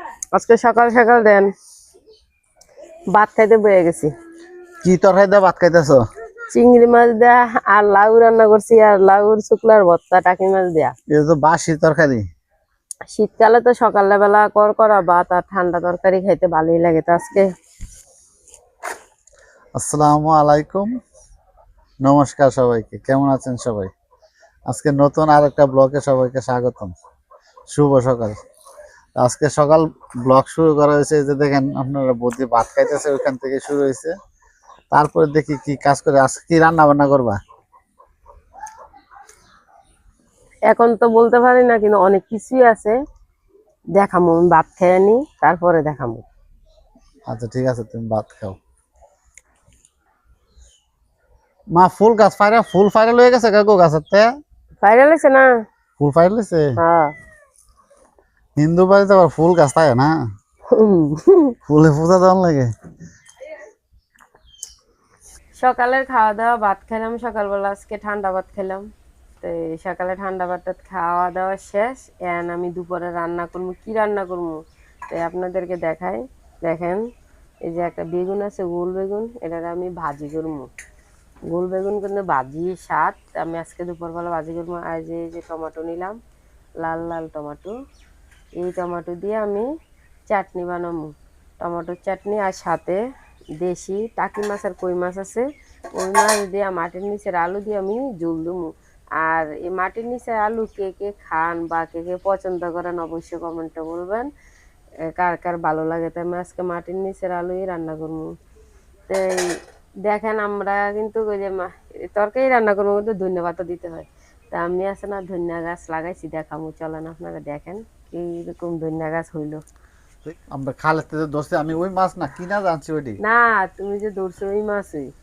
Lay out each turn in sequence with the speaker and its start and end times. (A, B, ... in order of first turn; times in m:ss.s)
0:00.3-0:01.5 A
0:03.1-0:04.1 A
0:04.8-0:06.0 B
0:06.5-0:11.0 A
0:11.1-0:12.2 B
0:13.1-0:17.5 A
0:19.8-0:20.9 B
0:22.0-0:23.9 B
0:24.7-0:26.9 B
0:27.7-0:28.4 B
0:29.2-0:34.1 B
0:34.9-0:37.4 B
0:40.7-0:43.0 A
0:44.0-0:46.2 A
0:47.3-0:48.6 B
0:51.8-0:54.3 B
0:54.8-0:55.5 A
0:56.0-0:56.8 B
0:56.8-0:57.1 A
0:58.6-1:00.2 B
1:00.7-1:01.6 A
1:01.7-1:02.7 B
1:05.6-1:08.9 A
1:09.4-1:14.6 A
1:15.1-1:17.0 A
1:17.6-1:20.7 A
1:21.5-1:26.2 A
1:26.8-1:27.7 A
1:28.6-1:29.7 A
1:30.3-1:33.0 A
1:33.6-1:38.7 A
1:39.2-1:44.3 A
1:45.1-1:48.3 A
1:49.1-1:59.6 A
2:00.2-2:03.2 B
2:03.2-2:05.1 A